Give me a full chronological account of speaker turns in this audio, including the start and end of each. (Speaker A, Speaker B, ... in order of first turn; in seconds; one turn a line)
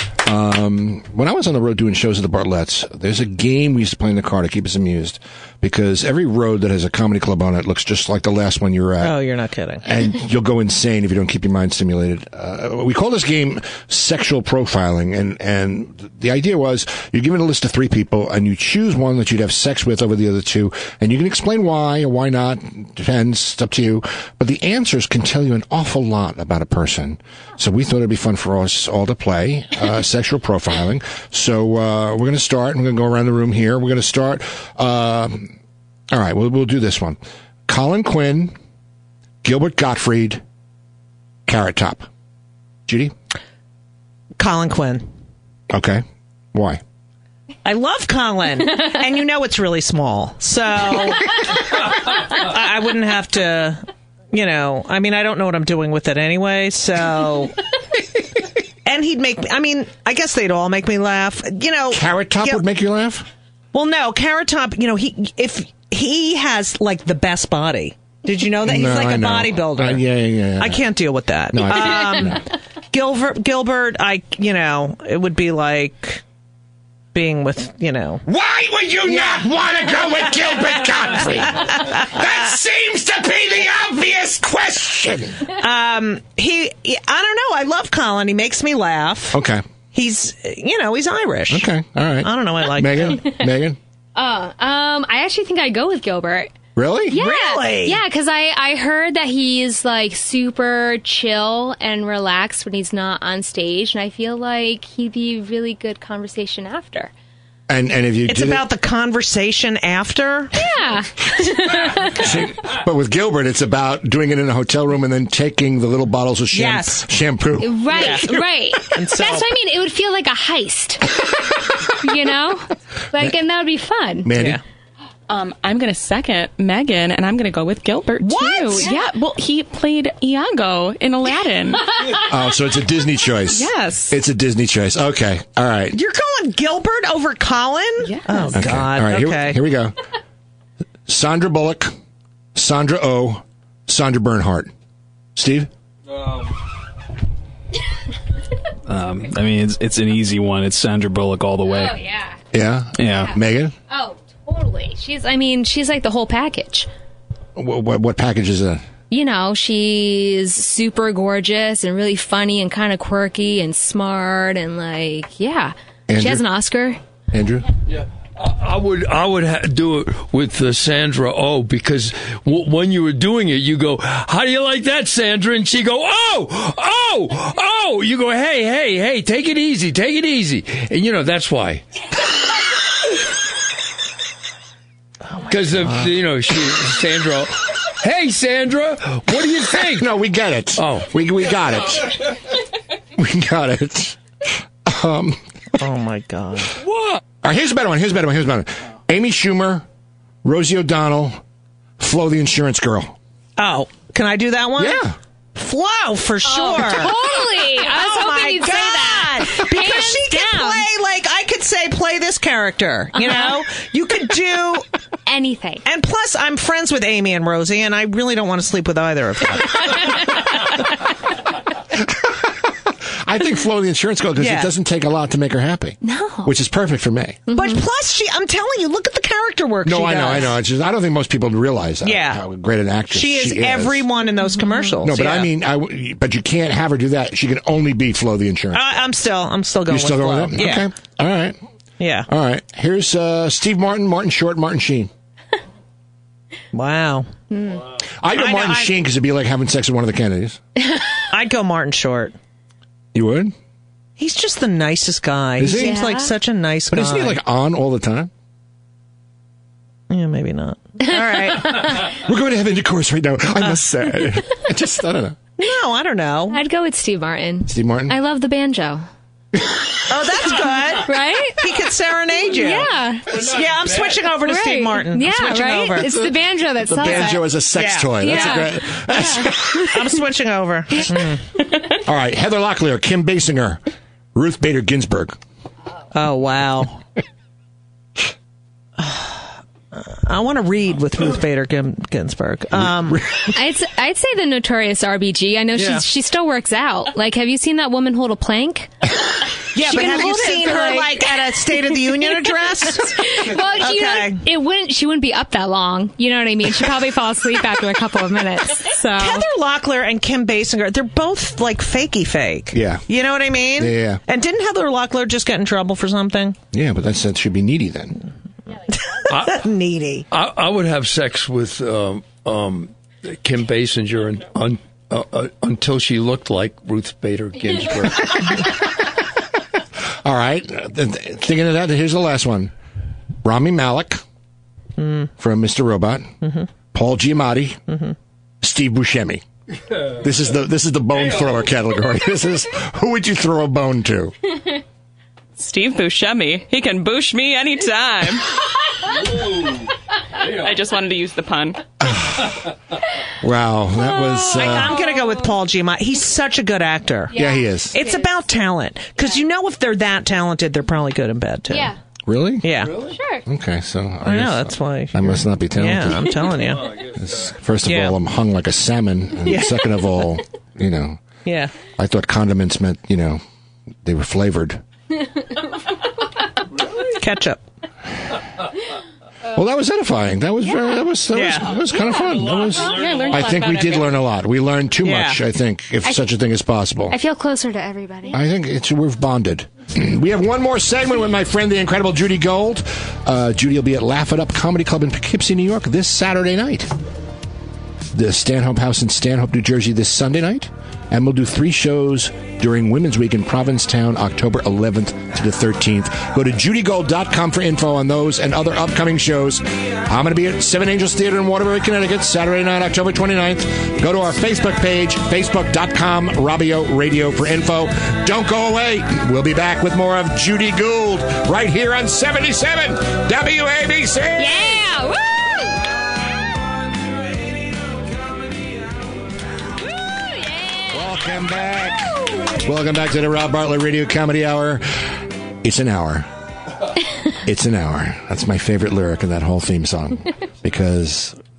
Speaker A: 0.2-9.2
Speaker B: 9.0-9.9
Speaker A: 9.8-35.5
Speaker A: 36.1-38.5
Speaker A: 39.4-40.4
Speaker A: 41.5-42.0
Speaker A: 42.9-43.1
Speaker B: 44.4-45.1
Speaker A: 45.7-46.8
Speaker B: 47.6-51.4
Speaker B: 52.2-57.5
Speaker B: 58.8-62.6
Speaker A: 61.9-63.3
Speaker B: 63.7-70.0
Speaker A: 68.6-70.8
Speaker B: 70.6-76.2
Speaker A: 71.5-72.4
Speaker B: 77.1-78.2
Speaker A: 78.2-85.4
Speaker B: 79.1-79.4
Speaker B: 85.5-89.4
Speaker A: 89.3-89.6
Speaker B: 89.9-91.7
Speaker A: 91.5-93.8
Speaker B: 92.2-93.2
Speaker C: 94.2-96.5
Speaker A: 96.8-97.2
Speaker C: 97.1-107.1
Speaker B: 97.1-98.0
Speaker A: 107.7-108.7
Speaker B: 108.3-110.5
Speaker C: 110.5-112.2
Speaker A: 112.0-118.4
Speaker B: 116.5-117.1
Speaker C: 117.6-121.1
Speaker B: 117.9-118.3
Speaker B: 118.9-119.5
Speaker C: 121.9-124.3
Speaker A: 124.2-124.6
Speaker B: 124.3-124.6
Speaker D: 125.3-131.9
Speaker B: 128.2-128.9
Speaker A: 132.2-136.0
Speaker D: 133.5-134.1
Speaker B: 135.9-139.6
Speaker A: 138.5-139.9
Speaker A: 141.1-141.9
Speaker A: 142.5-144.7
Speaker A: 145.3-145.7
Speaker E: 148.9-152.0
Speaker C: 151.7-152.3
Speaker A: 152.5-153.7
Speaker E: 153.0-153.3
Speaker C: 153.9-156.9
Speaker A: 157.6-158.8
Speaker C: 159.1-167.0
Speaker A: 166.1-166.4
Speaker A: 167.3-167.7
Speaker F: 167.9-181.8
Speaker F: 185.5-190.1
Speaker A: 189.7-192.4
Speaker F: 190.8-191.1
Speaker A: 193.2-195.4
Speaker B: 195.8-196.8
Speaker A: 197.4-199.8
Speaker A: 200.4-201.4
Speaker A: 202.0-203.2
Speaker B: 203.6-205.0
Speaker A: 204.8-205.1
Speaker B: 205.6-214.8
Speaker C: 206.4-210.8
Speaker C: 213.2-213.6
Speaker C: 215.2-215.8
Speaker B: 215.8-220.2
Speaker A: 221.9-227.4
Speaker B: 224.4-224.7
Speaker C: 226.0-226.5
Speaker C: 227.5-227.8
Speaker B: 227.5-230.6
Speaker A: 229.8-234.1
Speaker B: 232.0-232.4
Speaker B: 233.1-235.5
Speaker A: 235.0-238.8
Speaker B: 238.7-240.9
Speaker A: 239.9-241.6
Speaker B: 242.0-242.3
Speaker A: 242.3-245.1
Speaker B: 246.7-247.3
Speaker C: 247.5-247.8
Speaker A: 248.2-250.6
Speaker B: 248.3-248.9
Speaker B: 251.3-252.3
Speaker A: 253.1-253.5
Speaker B: 254.2-257.4
Speaker A: 255.6-256.0
Speaker C: 255.6-256.3
Speaker A: 256.9-258.3
Speaker B: 260.1-261.9
Speaker C: 261.5-261.8
Speaker A: 262.0-265.4
Speaker B: 265.6-266.6
Speaker C: 266.5-269.1
Speaker A: 267.7-268.2
Speaker B: 270.1-276.1
Speaker C: 271.1-271.6
Speaker C: 272.5-273.5
Speaker C: 274.3-277.6
Speaker A: 276.0-276.3
Speaker A: 276.8-280.0
Speaker B: 277.1-278.6
Speaker C: 278.1-279.9
Speaker B: 279.8-281.4
Speaker A: 282.0-283.8
Speaker A: 284.3-285.4
Speaker B: 286.1-287.0
Speaker B: 289.0-289.3
Speaker B: 289.9-293.2
Speaker A: 292.8-293.5
Speaker C: 293.5-299.1
Speaker B: 295.8-296.0
Speaker B: 299.7-304.4
Speaker C: 299.7-309.5
Speaker B: 309.2-316.6
Speaker A: 312.7-313.1
Speaker A: 313.8-314.2
Speaker A: 316.7-318.2
Speaker B: 319.1-320.2
Speaker F: 319.3-319.6
Speaker F: 320.3-328.6
Speaker A: 330.2-332.7
Speaker A: 333.4-334.2
Speaker B: 335.0-335.3
Speaker A: 335.4-336.3
Speaker A: 336.9-337.8
Speaker A: 338.6-339.4
Speaker A: 340.1-344.4
Speaker D: 345.6-348.5
Speaker F: 349.2-349.9
Speaker F: 350.4-350.7
Speaker D: 350.6-351.8
Speaker A: 352.0-352.5
Speaker A: 353.4-355.0
Speaker C: 354.0-355.6
Speaker B: 354.5-357.4
Speaker C: 357.3-358.3
Speaker A: 357.3-358.0
Speaker B: 357.9-361.9
Speaker C: 361.7-361.9
Speaker A: 362.2-362.9
Speaker B: 362.6-362.9
Speaker C: 363.1-363.4
Speaker A: 363.4-366.6
Speaker B: 364.2-366.9
Speaker A: 367.1-371.2
Speaker B: 367.9-368.1
Speaker B: 369.4-370.0
Speaker B: 371.4-371.7
Speaker A: 371.9-373.4
Speaker A: 374.0-374.8
Speaker B: 376.9-377.6
Speaker A: 379.5-387.2
Speaker B: 381.3-381.8
Speaker F: 382.8-383.2
Speaker C: 382.8-383.9
Speaker B: 385.0-385.4
Speaker C: 387.1-388.4
Speaker A: 388.3-396.9
Speaker A: 398.1-424.9
Speaker C: 424.4-425.8
Speaker A: 430.9-436.3
Speaker A: 437.4-441.4